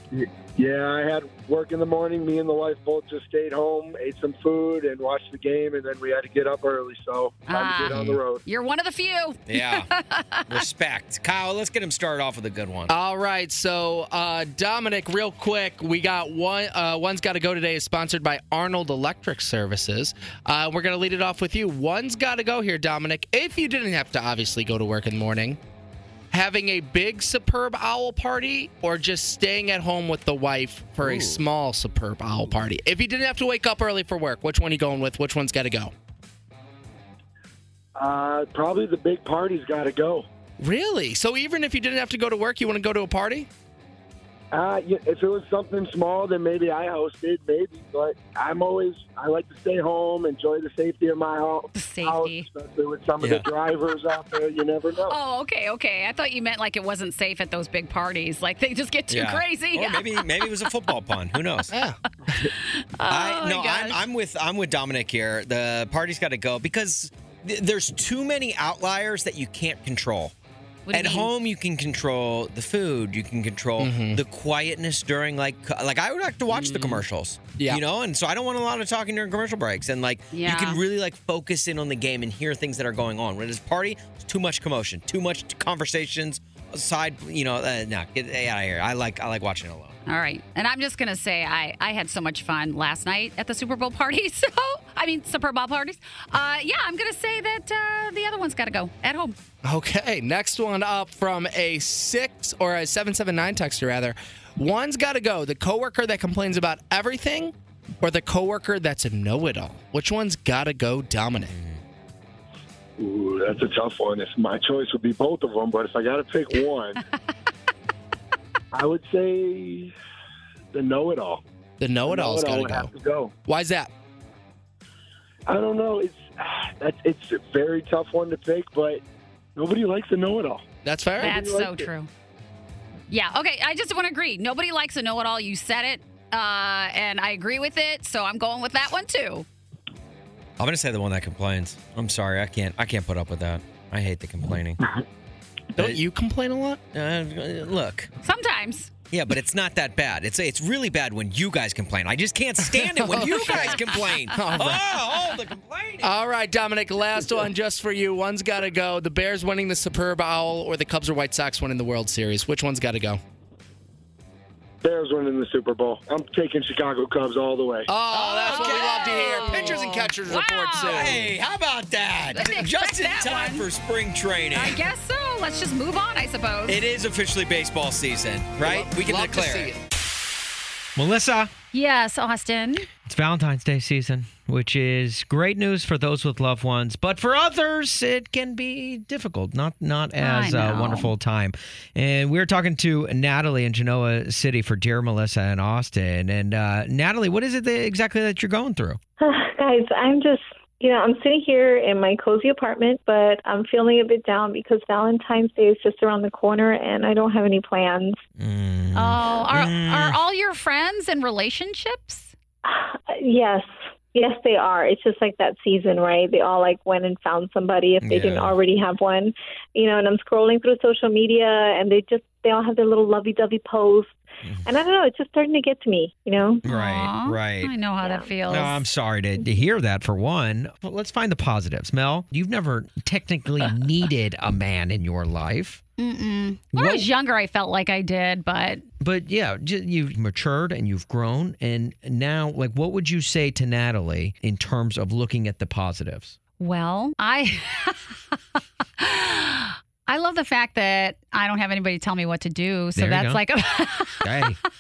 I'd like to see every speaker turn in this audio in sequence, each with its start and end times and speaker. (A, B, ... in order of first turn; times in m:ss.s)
0:00.1-0:08.4 A
0:07.5-0:10.6 B
0:09.5-0:09.9 C
0:10.5-0:12.9 C
0:12.9-0:25.6 D
0:26.3-0:35.9 D
0:31.0-0:31.4 C
0:38.0-0:40.3 A
0:40.6-0:43.5 D
0:44.5-0:55.2 A
0:51.7-0:52.5 B
0:55.1-1:00.7 B
0:59.1-1:01.7 C
1:01.7-1:02.0 D
1:02.5-1:04.0 B
1:03.1-1:10.3 C
1:10.9-1:11.3 B
1:10.9-1:30.0 C
1:13.8-1:14.2 D
1:16.5-1:17.0 D
1:17.6-1:17.8 D
1:20.3-1:20.8 B
1:30.1-1:39.3 B
1:39.6-1:51.5 D
1:51.4-1:51.8 C
1:53.0-1:57.0 A
1:58.7-1:59.9 A
2:00.7-2:01.4 A
2:01.8-2:02.9 D
2:02.1-2:03.3 A
2:03.4-2:03.9 D
2:05.5-2:09.0 A
2:09.6-2:10.6 A
2:10.8-2:11.4 D
2:11.2-2:12.1 B
2:11.2-2:11.8 A
2:13.1-2:19.4 B
2:20.6-2:24.8 C
2:25.8-2:26.8 D
2:26.9-2:28.1 C
2:28.2-2:28.9 B
2:29.1-2:36.1 C
2:32.6-2:35.0 D
2:36.0-2:43.2 D
2:44.8-2:47.9 A
2:47.9-2:51.3 D
2:48.1-2:50.0 C
2:48.4-2:51.2 B
2:50.8-2:54.8 C
2:52.3-2:53.7 B
2:54.5-2:56.8 B
2:56.7-2:59.8 C
2:58.6-2:59.8 D
3:01.0-3:01.5 C
3:01.7-3:02.9 B
3:03.0-3:19.0 C
3:10.2-3:11.1 B
3:19.2-3:28.2 E
3:28.4-3:30.2 C
3:28.9-3:32.3 B
3:32.6-3:46.6 E
3:38.0-3:38.5 C
3:46.6-3:47.7 C
3:46.7-3:48.8 B
3:48.0-3:48.3 E
3:48.5-3:55.8 C
3:56.0-3:58.9 B
3:56.7-3:57.0 C
3:59.0-4:06.4 C
4:06.6-4:08.2 B
4:09.0-4:14.3 B
4:12.9-4:13.4 C
4:14.2-4:14.6 C